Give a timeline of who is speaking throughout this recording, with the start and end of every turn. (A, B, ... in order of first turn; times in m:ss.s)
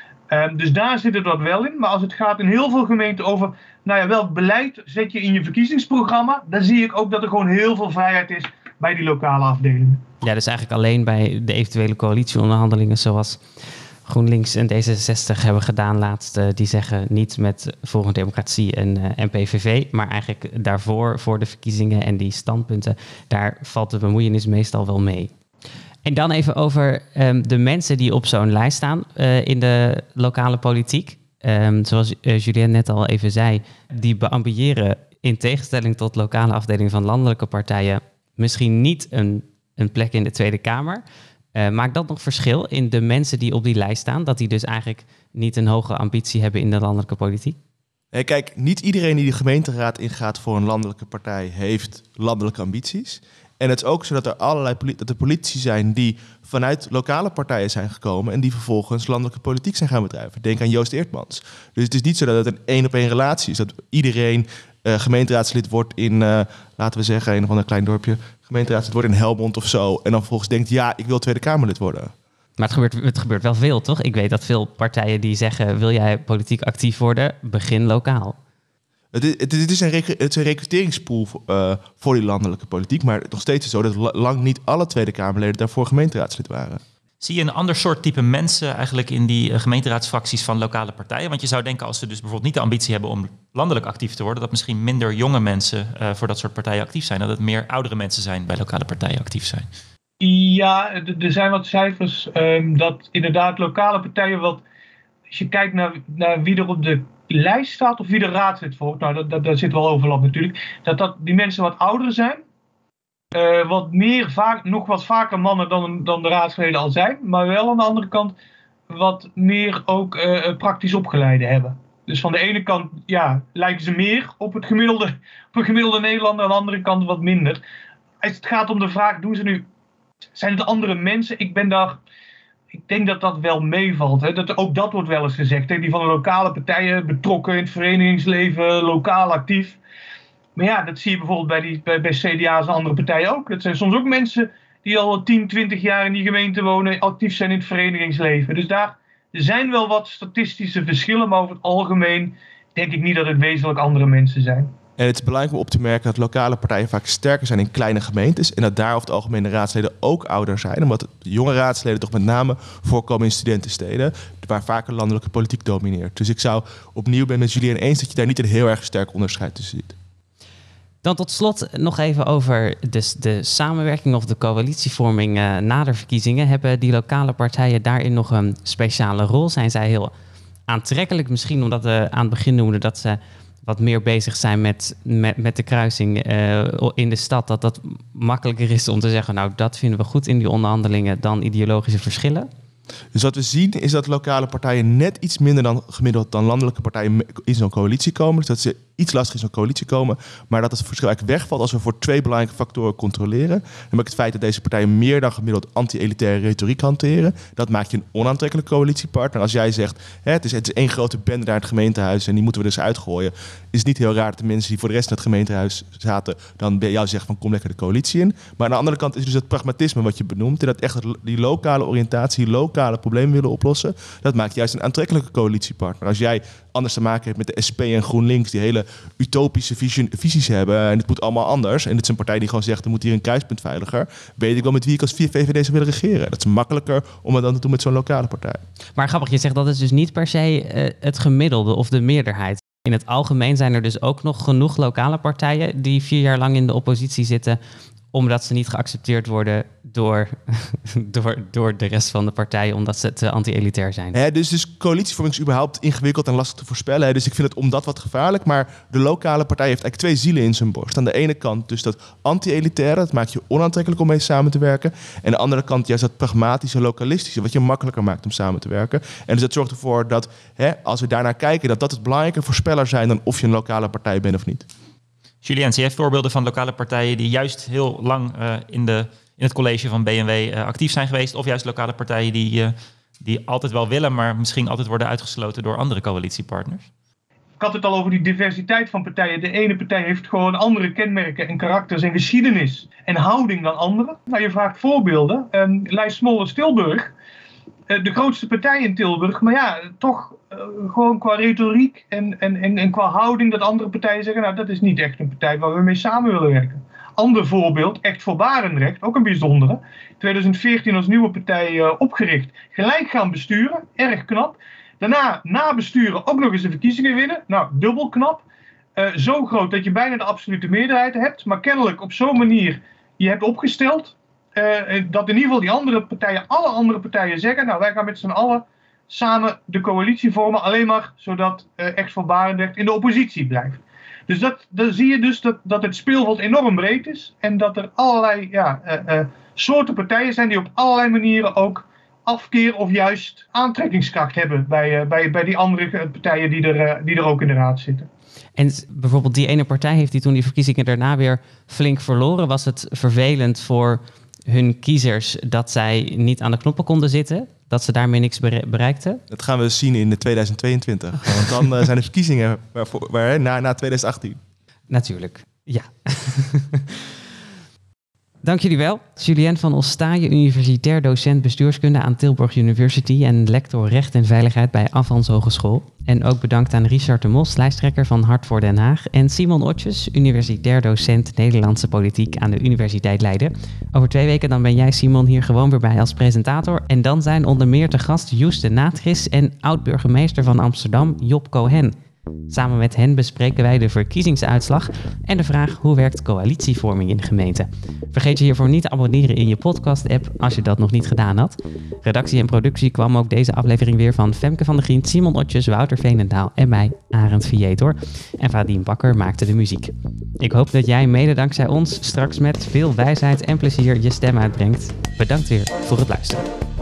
0:00.3-0:10.0 A
0:10.2-0:25.3 B
0:26.0-0:41.0 B
0:41.5-0:47.6 B
0:48.1-1:12.1 C
1:12.6-1:18.4 B
1:19.1-1:26.8 C
1:27.2-1:39.7 D
1:40.2-1:44.6 A
1:45.3-1:52.4 A
1:53.3-1:58.3 A
1:58.9-2:07.6 A
2:08.2-2:09.6 A
2:10.3-2:12.0 A
2:12.8-2:19.8 A
2:20.6-2:34.7 A
2:35.0-2:50.0 C
2:51.0-3:00.1 B
3:00.7-3:12.5 B
3:13.1-3:58.6 C
3:59.0-4:07.6 B
4:08.1-4:14.2 B
4:14.1-4:34.7 C
4:35.4-4:46.9 D
4:47.6-4:57.1 A
4:57.9-5:18.4 A
5:19.0-5:48.1 A
5:48.6-5:59.2 B
5:59.3-6:04.4 C
6:04.9-6:07.0 B
6:08.4-6:31.9 B
6:32.5-6:56.5 B